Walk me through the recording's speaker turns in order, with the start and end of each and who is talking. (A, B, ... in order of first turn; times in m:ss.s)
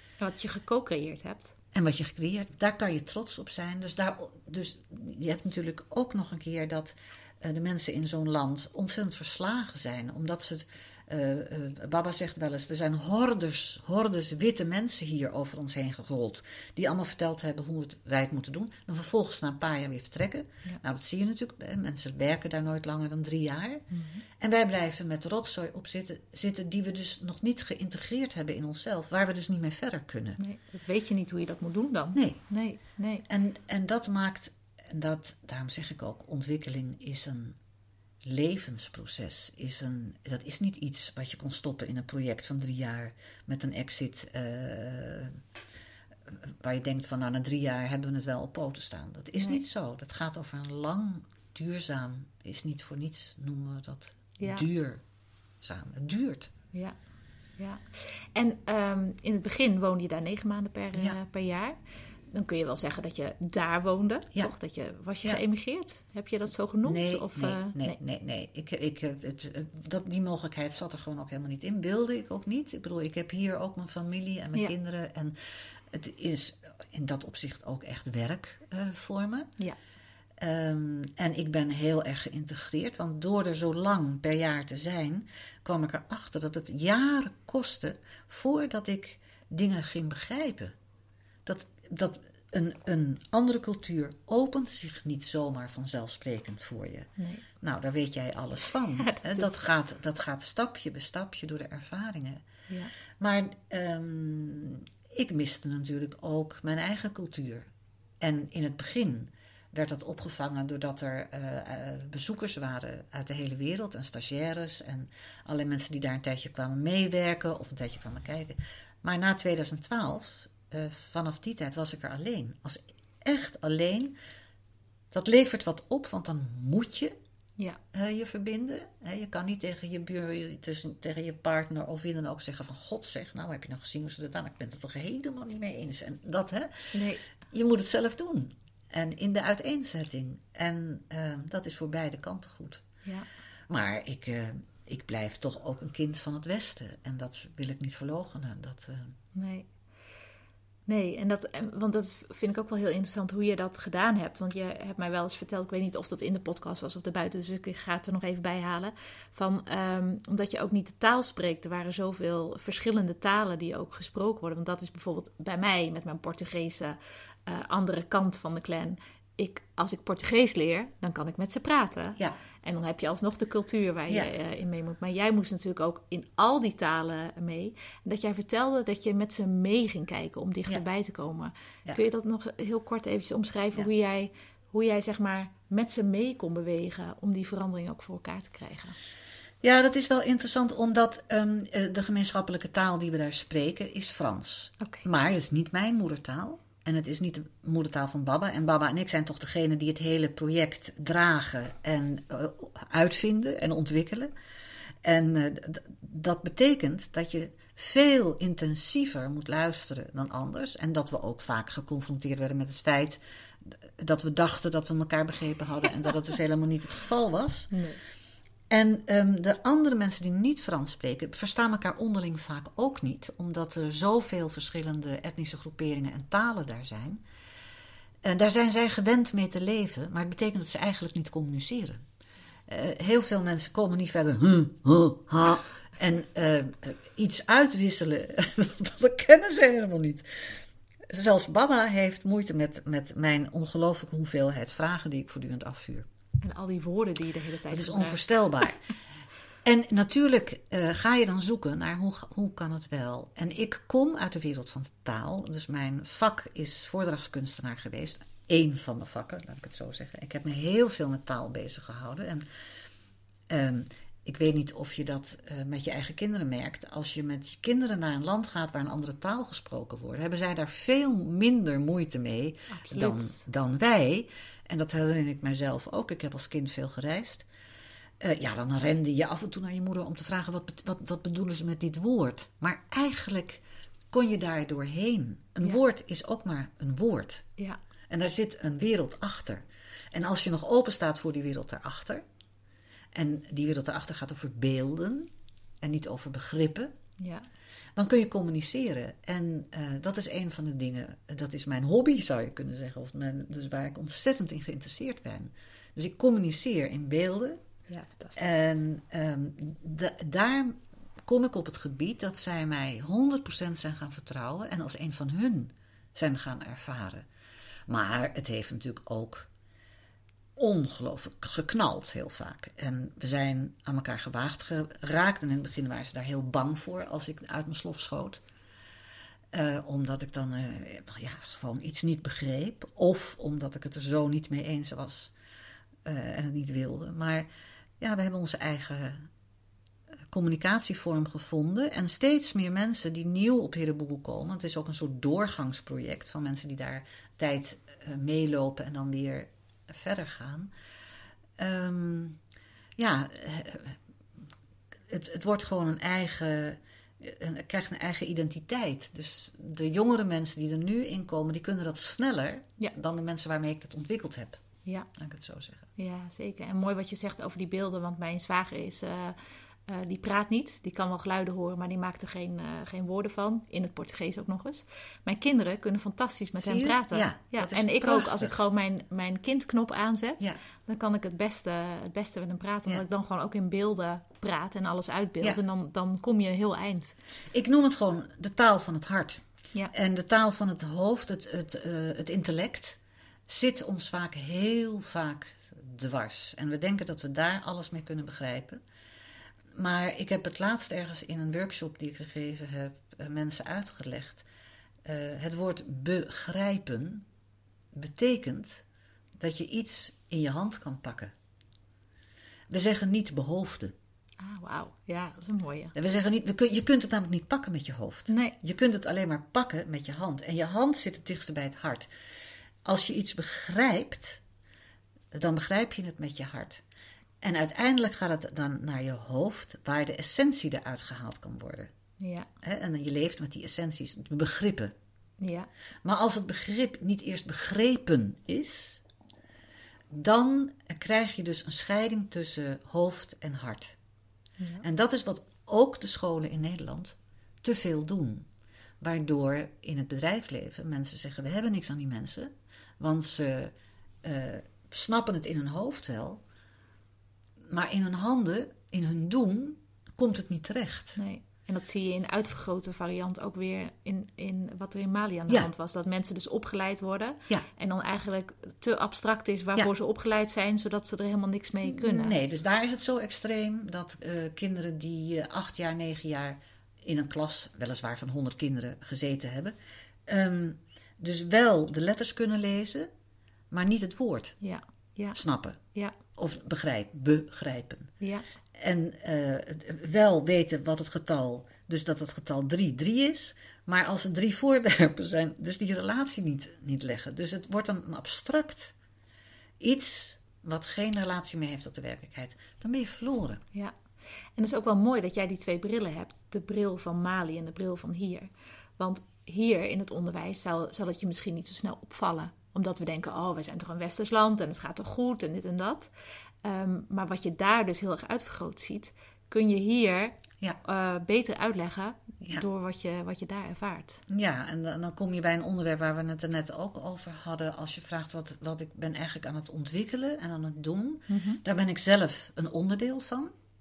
0:00.2-0:01.6 A
0:01.7-0:23.8 B
0:23.9-0:24.2 A
0:24.4-0:30.4 B
0:30.4-0:33.2 A
0:32.2-0:32.4 B
0:33.3-0:37.6 B
0:38.2-0:45.4 B
0:46.3-0:55.0 B
0:54.4-0:54.7 A
0:55.6-0:56.5 B
0:57.6-1:01.8 A
1:02.3-1:08.0 A
1:06.8-1:15.4 B
1:15.9-1:19.5 B
1:20.4-1:30.7 B
1:31.5-1:37.1 B
1:37.2-1:37.5 A
1:37.6-1:42.4 B
1:39.0-1:39.6 A
1:43.2-1:47.7 B
1:48.2-2:04.1 B
2:05.1-2:07.2 B
2:07.9-2:16.9 B
2:16.9-2:17.2 A
2:17.5-2:22.8 B
2:23.7-2:29.1 B
2:29.4-2:29.7 A
2:30.9-3:09.0 A
3:09.6-3:24.3 B
3:14.8-3:15.0 A
3:25.0-3:37.7 B
3:37.7-3:38.0 A
3:38.7-3:47.2 B
3:48.2-3:52.0 B
3:52.7-4:00.5 B
4:01.1-4:06.1 B
4:06.4-4:08.4 A
4:07.7-4:08.8 B
4:09.6-4:22.4 B
4:23.5-4:37.5 B
4:32.7-4:33.4 A
4:38.2-4:47.5 B
4:48.1-4:49.6 B
4:50.1-4:52.2 B
4:53.1-4:56.9 B
4:57.2-4:57.5 A
4:58.0-5:07.6 B
5:07.9-5:08.6 A
5:08.4-5:17.3 B
5:17.9-5:19.5 B
5:20.6-5:28.4 B
5:29.5-5:35.3 B
5:36.0-5:37.5 B
5:38.0-5:39.3 B
5:40.3-5:50.7 B
5:51.6-5:52.4 B
5:53.0-5:54.0 B
5:55.1-6:04.6 B
6:05.2-6:05.9 B
6:06.0-6:09.4 A
6:09.9-6:27.1 A
6:16.6-6:18.5 B
6:27.5-6:38.8 B
6:39.8-6:44.4 B
6:45.0-6:47.3 B
6:47.9-6:48.8 B
6:49.4-6:51.3 B
6:52.7-6:53.9 B
6:54.4-6:55.9 A
6:56.0-7:02.1 B
6:58.3-6:58.6 A
7:02.8-7:04.4 B
7:05.3-7:06.8 B
7:07.4-7:11.9 B
7:12.2-7:12.5 A
7:12.6-7:14.9 B
7:15.4-7:15.7 A
7:16.0-7:19.0 B
7:20.1-7:24.0 B
7:24.8-7:28.5 B
7:29.0-7:36.4 B
7:37.7-7:41.2 B
7:41.2-7:52.4 A
7:51.8-7:59.7 B
8:00.3-8:03.1 B
8:03.7-8:04.6 B
8:04.6-8:05.4 A
8:05.3-8:05.8 B
8:06.4-8:08.1 B
8:08.8-8:18.9 B
8:19.8-8:23.6 B
8:24.6-8:36.1 A
8:36.6-8:44.2 A
8:44.3-8:53.5 B
8:51.3-8:51.6 A